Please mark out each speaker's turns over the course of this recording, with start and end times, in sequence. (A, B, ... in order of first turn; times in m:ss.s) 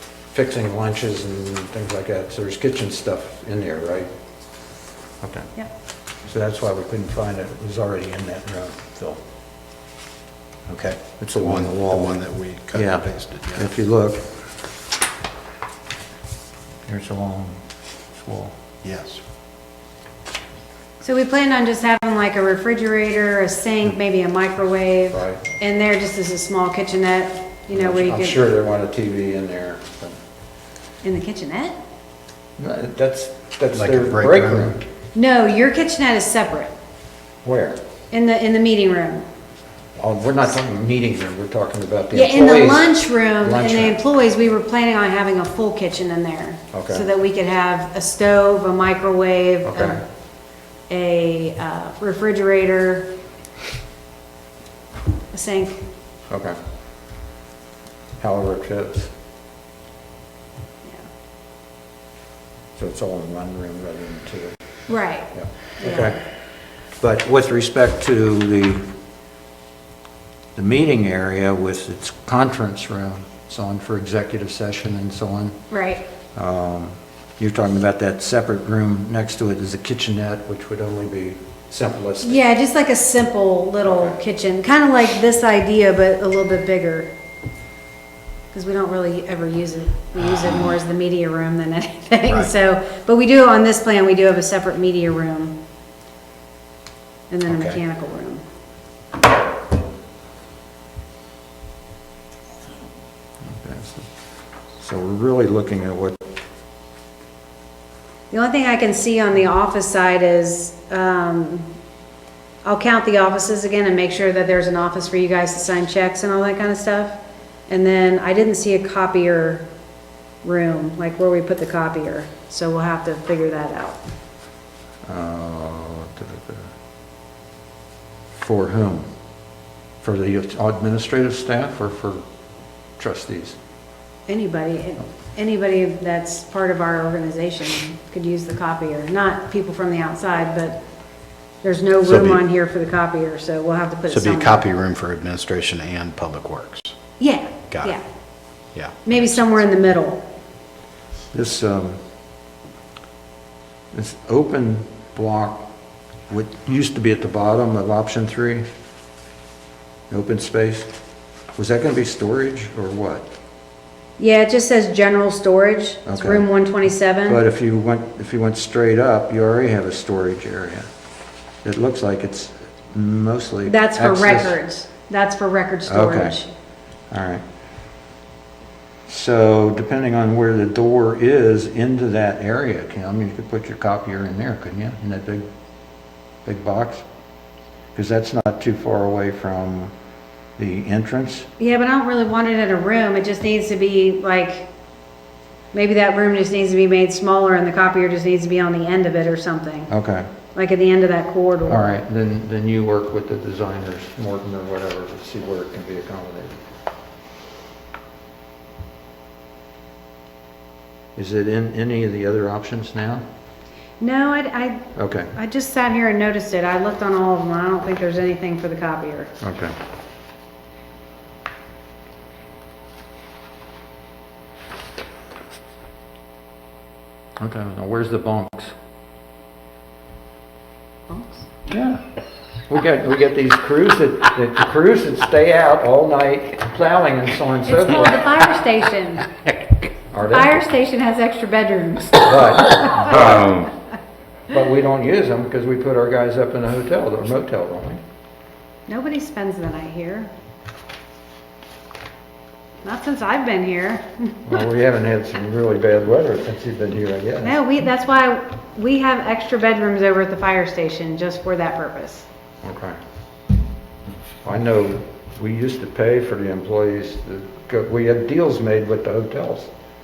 0:00.3-0:04.1 A
0:05.2-0:05.5 A
0:06.2-0:09.2 A
0:10.7-0:14.3 A
0:11.4-0:13.7 B
0:16.8-0:17.6 A
0:18.2-0:18.6 A
0:18.8-0:19.2 B
0:21.0-0:28.4 C
0:25.1-0:25.4 A
0:27.7-0:30.2 A
0:31.0-0:31.8 C
0:32.6-0:34.9 A
0:33.7-0:34.7 B
0:35.1-0:36.7 C
0:37.4-0:37.8 A
0:38.1-0:39.3 C
0:40.0-0:44.0 A
0:42.1-0:50.0 C
0:46.7-0:47.0 A
0:49.6-0:50.0 A
0:50.9-0:53.1 C
0:55.3-0:55.8 C
0:56.3-0:56.6 A
0:58.2-0:59.1 A
1:02.8-1:04.6 A
1:04.9-1:06.1 C
1:05.3-1:06.2 A
1:07.0-1:08.9 A
1:10.5-1:15.6 A
1:15.7-1:16.0 C
1:16.3-1:22.4 A
1:22.2-1:27.1 C
1:23.8-1:24.2 A
1:28.5-1:35.6 C
1:32.2-1:32.5 B
1:37.3-1:38.4 C
1:37.5-1:37.8 B
1:43.4-1:44.1 A
1:44.8-1:46.2 A
1:48.3-1:51.7 C
1:52.6-1:59.6 C
2:00.4-2:04.0 C
2:05.1-2:06.7 A
2:08.4-2:09.1 A
2:10.0-2:12.2 A
2:13.0-2:13.6 A
2:14.3-2:20.8 C
2:21.6-2:24.6 C
2:22.0-2:22.4 B
2:24.1-2:27.0 B
2:27.2-2:28.0 C
2:27.7-2:28.0 B
2:28.7-2:29.6 B
2:29.0-2:30.2 C
2:31.3-2:32.0 A
2:33.9-2:35.7 A
2:36.3-2:38.6 A
2:40.1-2:40.9 A
2:41.6-2:43.3 A
2:44.2-2:47.4 C
2:46.0-2:46.4 A
2:47.3-2:50.9 A
2:51.6-2:54.5 A
2:53.6-2:56.5 C
2:55.9-2:56.4 A
2:57.1-2:57.4 A
2:59.1-3:05.4 A
3:06.4-3:07.0 A
3:07.9-3:09.9 A
3:10.6-3:11.5 A
3:11.6-3:14.7 C
3:15.7-3:19.9 C
3:19.9-3:20.3 A
3:20.5-3:21.9 C
3:21.7-3:26.6 A
3:31.2-3:33.2 A
3:34.0-3:39.3 C
3:35.0-3:35.3 A
3:39.4-3:39.7 A
3:47.4-3:48.7 A
3:51.1-3:51.4 C
3:51.7-3:52.0 A
3:52.7-3:58.3 A
3:57.6-3:59.3 C
4:00.1-4:00.5 A
4:00.3-4:03.7 C
4:02.2-4:03.7 A
4:04.5-4:08.0 A
4:08.9-4:10.3 C
4:12.8-4:14.5 C
4:14.4-4:17.6 A
4:17.4-4:22.2 C
4:22.6-4:23.0 A
4:24.4-4:29.7 A